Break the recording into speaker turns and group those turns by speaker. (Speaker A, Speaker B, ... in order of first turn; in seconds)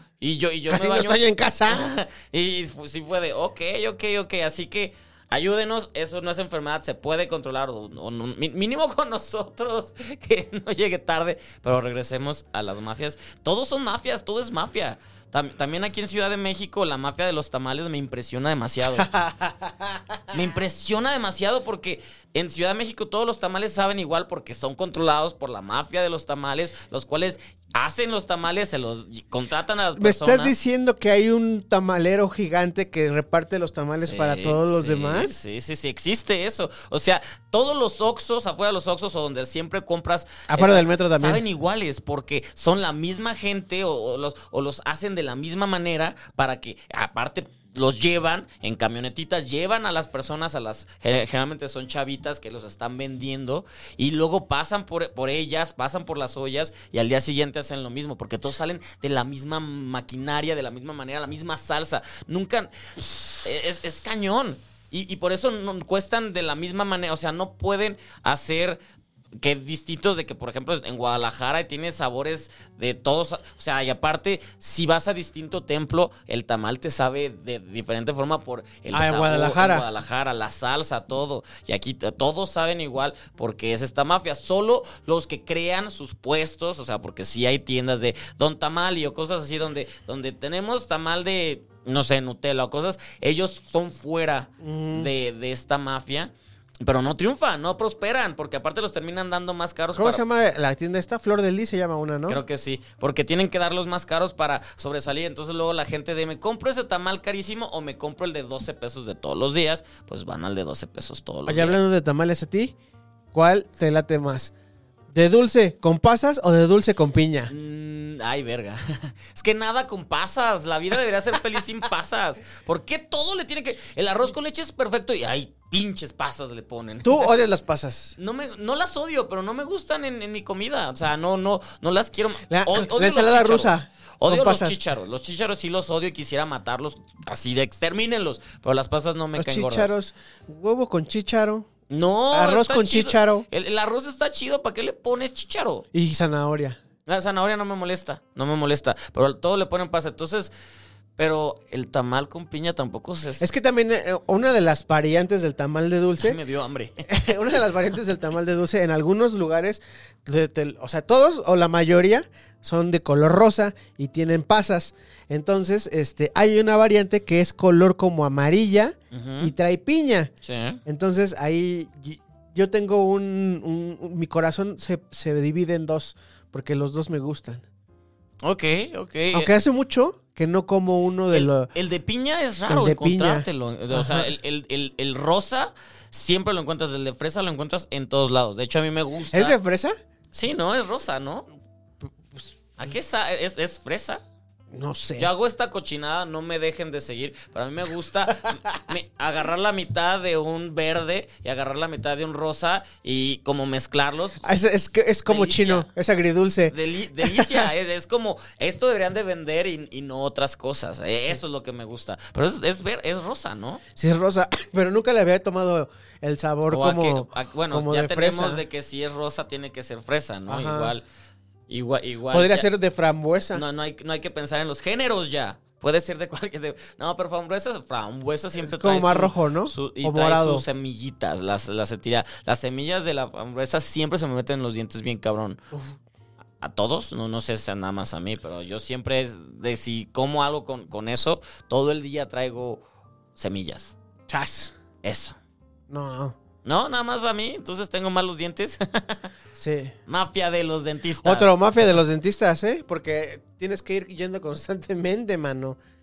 Speaker A: 0.2-19.1, 20.3-30.6, 34.0-68.8, 69.4-100.2, 102.3-111.8, 117.5-127.3, 128.2-139.9, 141.9-145.8, 147.0-150.5, 151.2-153.5, 156.2-157.2, 169.1-169.5, 170.4-170.8, 178.4-179.5, 181.3-189.6, 190.3-191.4, 192.8-194.2, 195.2-204.5, 205.3-205.9, 206.7-213.8, 216.7-221.0, 221.7-222.7, 223.5-235.6, 236.6-242.8, 243.3-243.9, 245.0-245.3, 246.6-249.2, 250.1-251.5
Speaker B: 0.7-1.9, 19.0-20.2, 29.9-35.3, 40.5-41.4, 78.9-79.8, 94.6-95.1, 99.9-102.4, 111.5-112.7, 113.3-114.5, 115.1-117.5, 127.0-128.2, 132.5-134.8, 139.3-141.7, 142.3-143.4, 145.9-146.8, 153.4-156.4, 157.1-170.3, 170.8-177.6, 179.3-181.7, 182.7-184.3, 189.3-189.9, 194.7-195.3, 204.4-207.7, 213.9-218.6, 220.5-220.9, 222.3-223.6, 228.6-230.6, 235.7-236.0, 244.3-244.7, 245.9-246.3, 249.6-249.9, 251.2-255.8